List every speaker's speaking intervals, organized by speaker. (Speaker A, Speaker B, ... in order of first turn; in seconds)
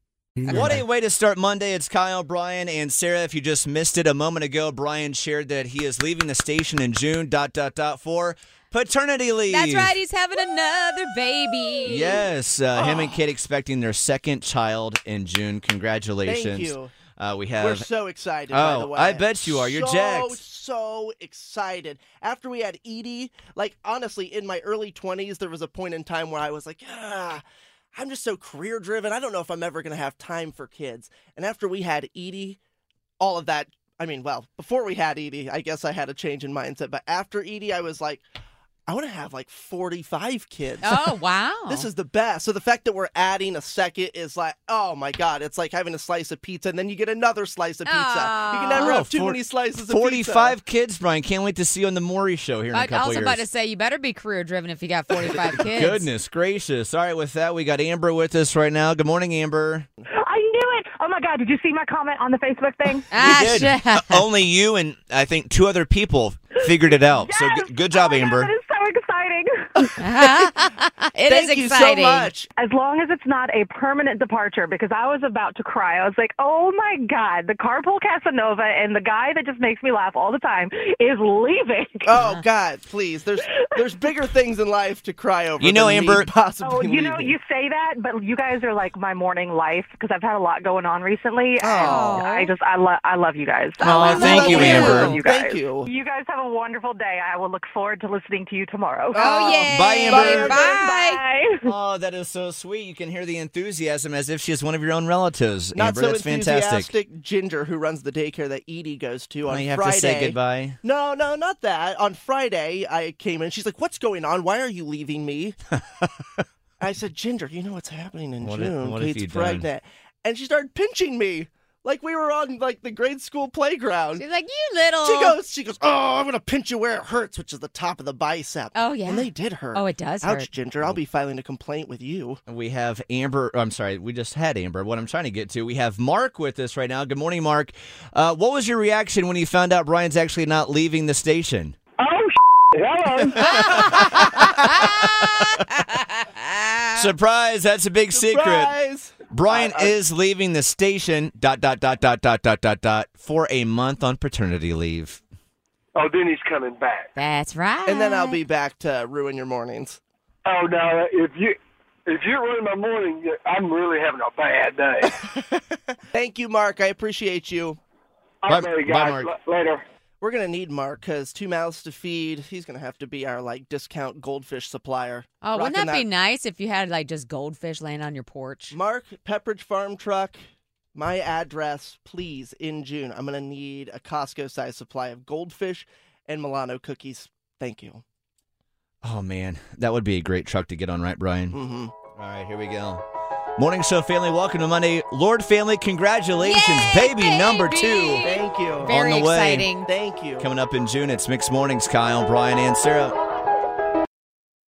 Speaker A: 0.5-10.0, 11.8-17.9, 18.5-20.4, 48.7-53.4, 55.6-59.9, 63.1-68.5, 85.6-86.3, 93.8-95.2, 99.7-100.6, 101.6-106.9, 109.5-110.8, 118.4-119.7, 132.5-141.8, 143.3-145.6, 146.9-148.7, 149.3-155.2, 168.5-169.3, 189.0-191.6, 192.2-193.0, 193.6-198.3, 198.9-199.7, 200.4-203.2
Speaker B: 0.5-0.8, 9.5-12.2, 40.8-41.9, 47.8-49.0, 52.7-56.1, 63.1-64.2, 69.9-72.3, 82.2-82.4, 91.7-92.5, 94.1-95.2, 99.1-101.2, 124.2-125.4, 128.7-130.5, 143.9-147.0, 157.2-158.4, 175.4-178.8, 196.4-199.9
Speaker C: 12.7-13.2, 16.2-16.9, 17.6-27.4, 27.9-32.6, 33.2-38.2, 38.9-50.6, 71.3-72.5, 82.0-87.3, 91.6-92.2, 93.8-95.9, 99.1-100.9, 105.7-115.8, 116.8-124.2, 125.0-132.4, 148.1-149.9, 157.8-160.0, 165.2-167.8, 170.2-176.1, 178.7-180.4, 180.9-188.0, 191.5-191.9, 198.2-199.0, 199.8-200.5
Speaker D: 60.2-63.5, 67.1-69.9, 72.6-82.1, 83.5-84.2, 86.6-101.6
Speaker E: 142.0-143.8, 155.9-157.1, 160.4-165.2, 168.4-169.8